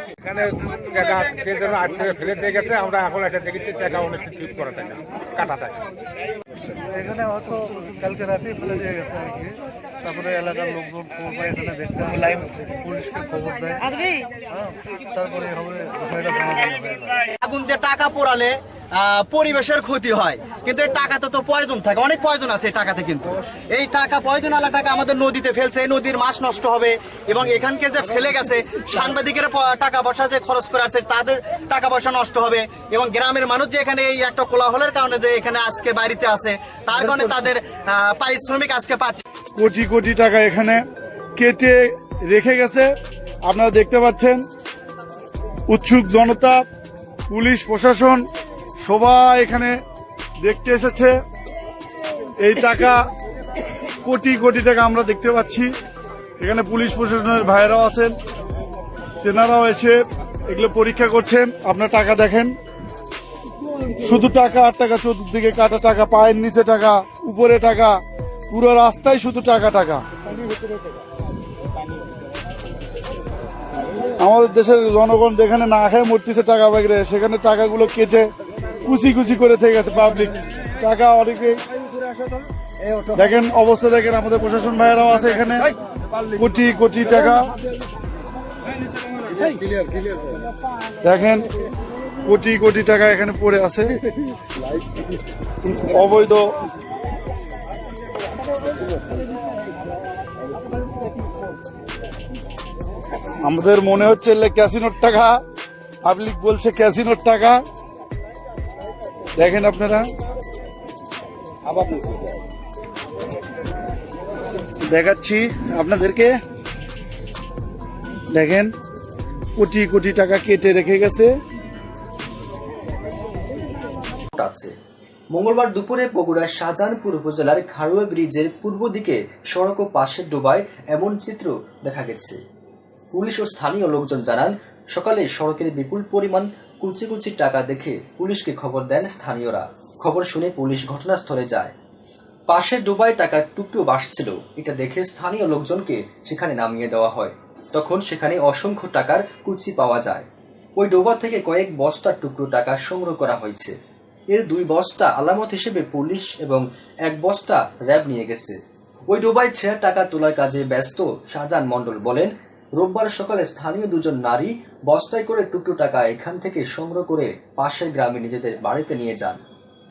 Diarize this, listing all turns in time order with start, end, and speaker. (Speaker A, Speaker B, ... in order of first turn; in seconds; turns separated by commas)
Speaker A: 0.2-5.9, Speaker A: 6.7-8.0, Speaker B: 7.1-7.4, Speaker B: 8.0-9.3, Speaker A: 8.5-9.5, Speaker B: 10.0-13.6, Speaker A: 10.4-11.4, Speaker B: 15.1-16.2, Speaker A: 16.2-16.8, Speaker C: 17.2-39.2, Speaker D: 39.6-40.8, Speaker D: 41.4-42.9, Speaker D: 43.5-44.4, Speaker D: 45.7-46.6, Speaker D: 47.3-48.2, Speaker D: 48.8-49.8, Speaker D: 50.4-51.2, Speaker D: 52.4-53.0, Speaker D: 54.0-55.7, Speaker D: 56.4-58.1, Speaker D: 59.2-62.5, Speaker D: 64.0-68.0, Speaker D: 68.5-70.0, Speaker D: 74.2-78.3, Speaker D: 78.8-81.6, Speaker D: 83.1-85.7, Speaker D: 86.3-87.4, Speaker D: 91.0-91.5, Speaker D: 92.3-94.0, Speaker D: 95.6-96.5, Speaker D: 103.5-105.4, Speaker D: 106.0-107.6, Speaker D: 109.4-110.1, Speaker D: 114.9-116.3, Speaker D: 118.3-118.7, Speaker D: 119.6-121.3, Speaker E: 124.3-124.7, Speaker E: 125.3-132.4, Speaker E: 133.1-141.7, Speaker E: 142.5-150.3, Speaker E: 150.8-153.8, Speaker E: 154.3-169.4